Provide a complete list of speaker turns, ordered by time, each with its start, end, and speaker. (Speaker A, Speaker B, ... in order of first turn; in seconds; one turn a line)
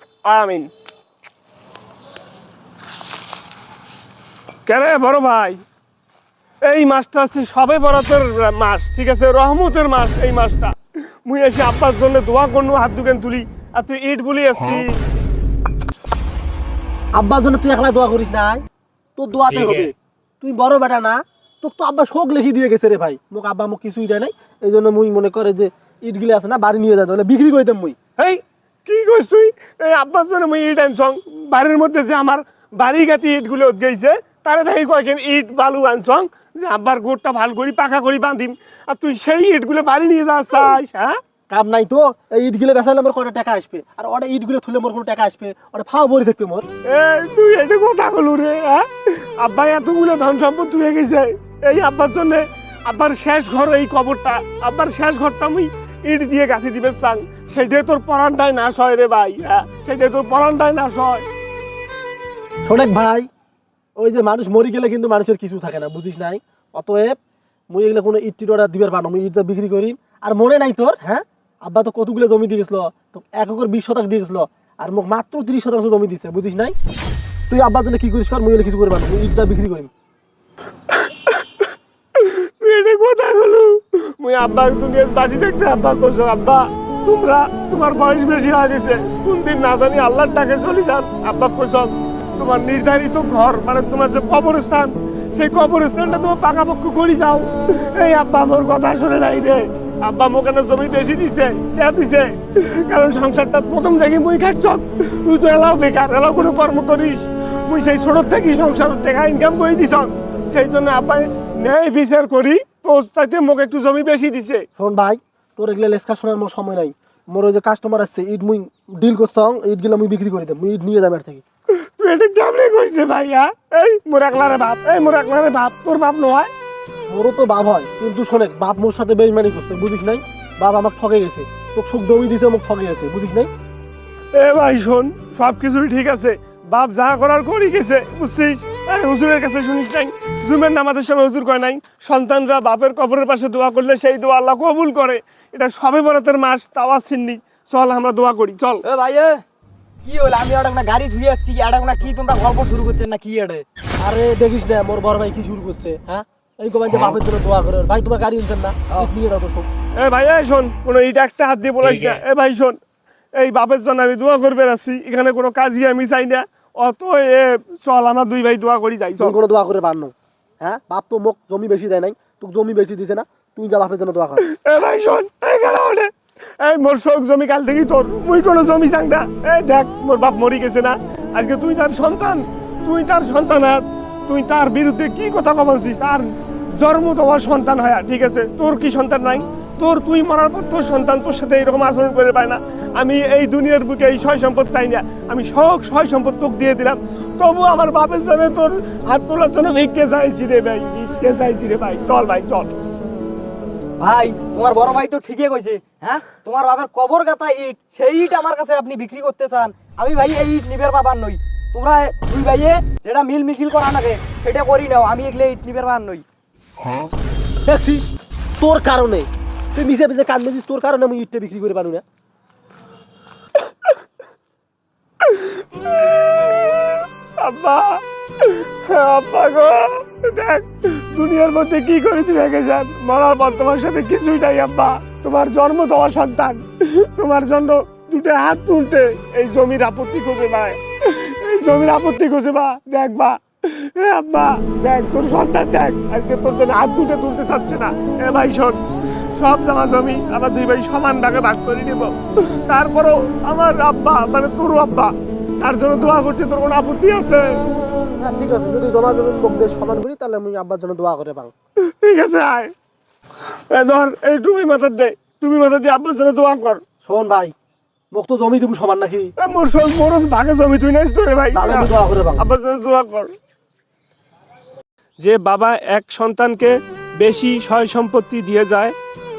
Speaker A: 0.3-0.7
Speaker A: 4.7-5.6
Speaker A: 6.7-10.7
Speaker A: 11.2-14.9
Speaker B: 17.1-18.6
Speaker B: 19.2-28.0
Speaker A: 28.2-41.1
Speaker B: 41.5-46.7
Speaker A: 46.9-61.2
Speaker B: 62.6-63.3
Speaker B: 64.0-67.2
Speaker B: 67.7-76.8
Speaker B: 77.5-79.9
Speaker A: 81.0-81.4
Speaker A: 82.2-114.7
Speaker B: 114.8-121.4
Speaker A: 121.8-126.5
Speaker B: 127.1-133.5
Speaker A: 134.3-148.8
Speaker C: 148.8-149.4
Speaker C: 150.0-153.7
Speaker B: 154.0-159.7
Speaker A: 160.0-162.8
Speaker A: 163.4-169.4
Speaker B: 169.2-174.4
Speaker A: 174.4-202.7
Speaker C: 204.0-216.2
Speaker B: 217.7-218.1
Speaker B: 218.6-222.0
Speaker A: 225.2-248.8
Speaker A: 249.4-257.5
Speaker B: 258.2-261.5
Speaker A: 261.8-262.7
Speaker A: 263.7-266.8
Speaker B: 267.1-267.5
Speaker B: 268.1-269.3
Speaker A: 269.4-273.3
Speaker B: 271.5-272.4
Speaker A: 275.2-278.9